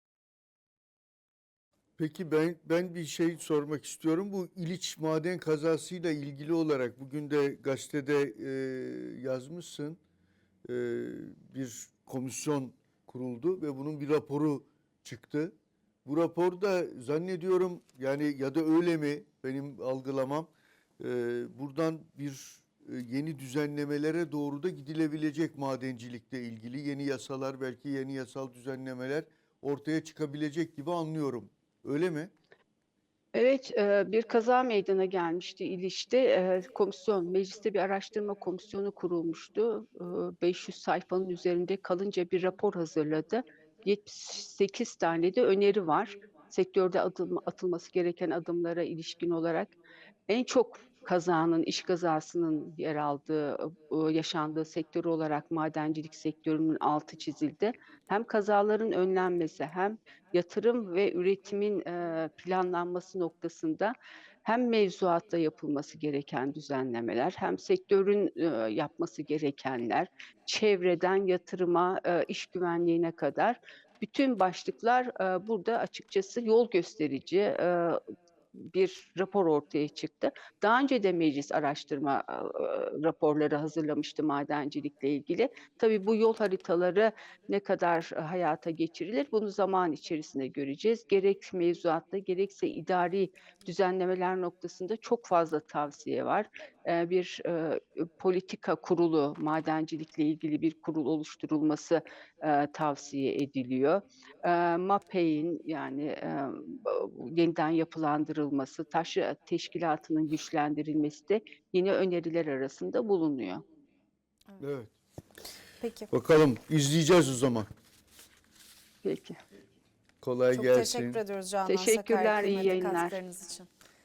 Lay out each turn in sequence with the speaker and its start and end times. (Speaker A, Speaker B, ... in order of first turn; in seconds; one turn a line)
Speaker A: 2.0-10.0
Speaker A: 10.7-15.5
Speaker A: 16.0-32.3
Speaker B: 33.3-49.8
Speaker B: 50.3-78.0
Speaker B: 78.6-113.6
Speaker A: 114.6-114.9
Speaker C: 115.8-116.1
Speaker A: 116.1-117.7
Speaker B: 119.0-119.4
Speaker A: 120.2-121.2
Speaker C: 120.5-123.7
Speaker B: 121.7-123.2